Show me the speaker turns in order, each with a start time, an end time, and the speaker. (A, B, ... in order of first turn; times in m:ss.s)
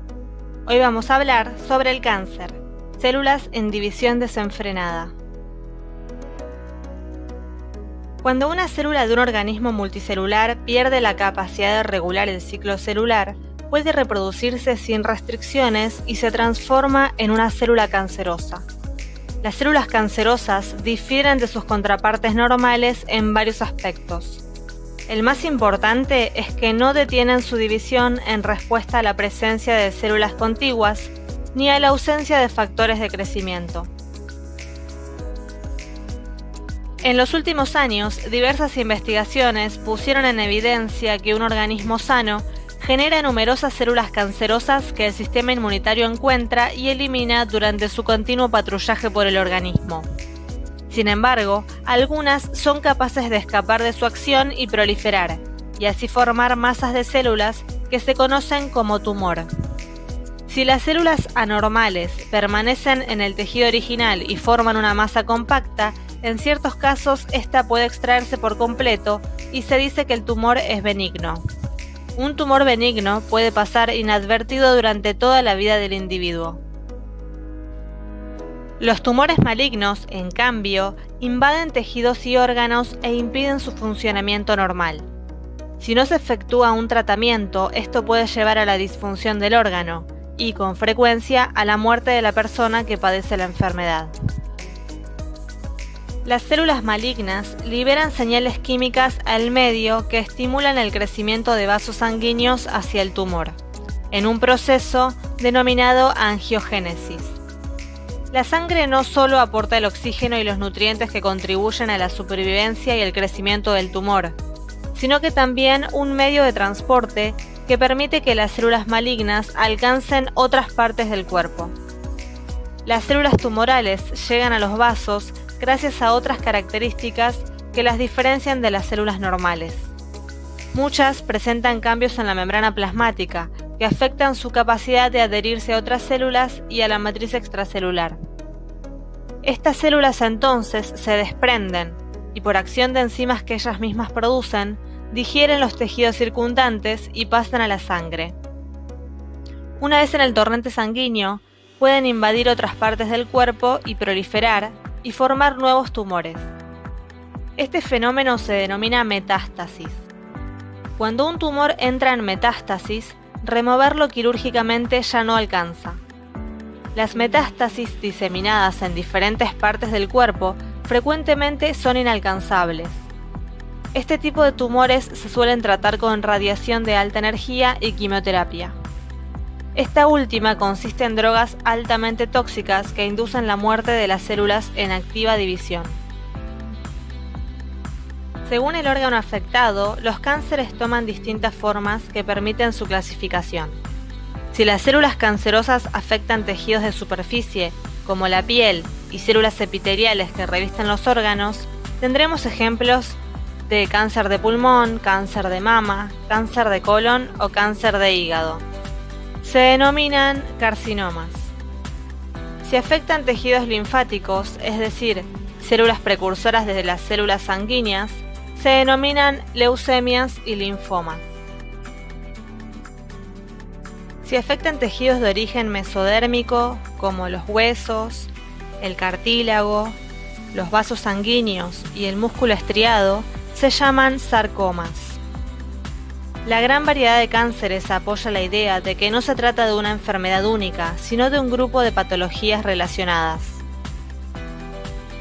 0:00.6-0:05.1 A
0:08.2-0:18.6 A
0:19.4-0:24.4 A
0:25.1-0:33.9 A
0:37.0-0:50.1 A
0:50.9-0:59.5 A
1:00.5-1:11.4 A
1:12.2-1:16.6 A
1:18.8-1:25.1 A
1:25.8-1:34.1 A
1:36.2-1:43.6 A
1:44.1-1:47.4 A
1:48.3-1:54.4 A
1:54.9-2:01.7 A
2:02.8-2:09.9 A
2:10.7-2:18.2 A
2:19.4-2:28.4 A
2:29.8-2:36.5 A
2:37.6-2:40.0 A
2:41.0-2:46.0 A
2:46.9-2:53.1 A
2:53.9-2:58.8 A
2:59.7-3:06.0 A
3:08.4-3:13.8 A
3:14.5-3:23.2 A
3:23.7-3:28.6 A
3:29.4-3:31.5 A
3:32.6-3:41.3 A
3:44.2-3:50.0 A
3:50.5-3:55.2 A
3:56.4-4:03.6 A